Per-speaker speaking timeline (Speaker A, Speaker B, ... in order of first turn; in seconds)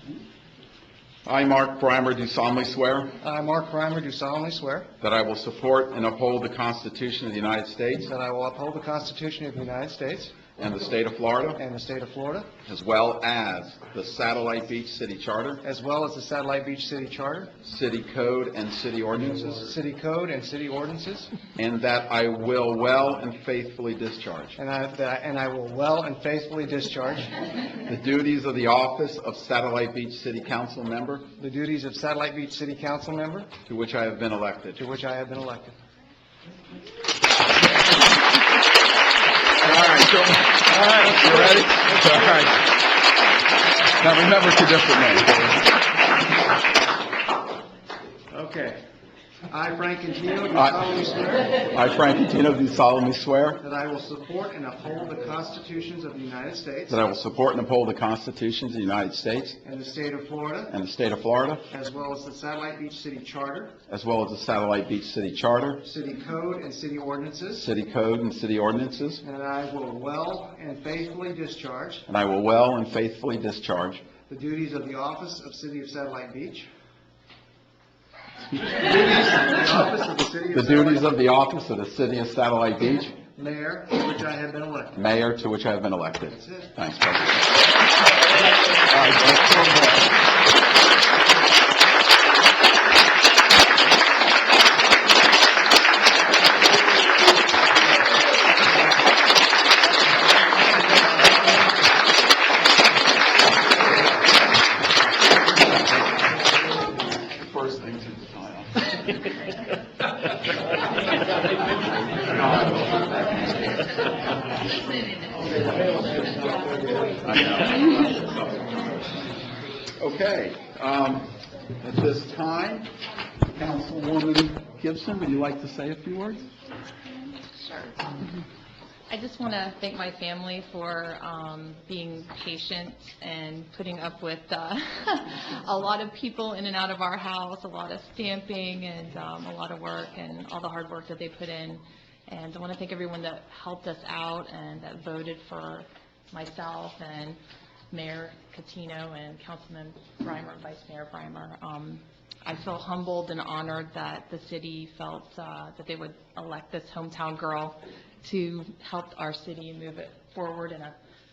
Speaker A: 1.2-3.2, 5.0-8.1, 10.6-11.6, 12.7-15.6, 17.6-19.5, 21.6-24.6, 27.9-31.3, 33.6-34.8, 39.6-42.7, 44.0-45.7, 50.5-50.8, 51.6-53.6, 56.9-59.6, 60.7-61.7, 63.9-65.8, 67.6-69.2, 72.1-74.1, 80.5-83.2, 85.0-87.6, 88.9-89.9, 107.3-108.9, 112.3-113.5, 117.2-118.8, 120.0-122.9, 123.5-126.5
Speaker B: 3.2-4.9, 8.1-10.4, 11.6-12.5, 15.6-17.5, 19.2-21.3, 24.6-27.4, 31.4-33.5, 34.8-35.8, 40.7-42.5, 48.3-48.8, 49.5-51.7, 53.6-57.0, 59.6-60.7, 61.7-63.8, 65.8-67.7, 69.2-72.1, 74.3-76.7, 78.6-81.1, 83.2-85.0, 86.3-86.7, 115.7-116.3
Speaker C: 127.5-128.4, 129.1-147.4, 147.9-161.0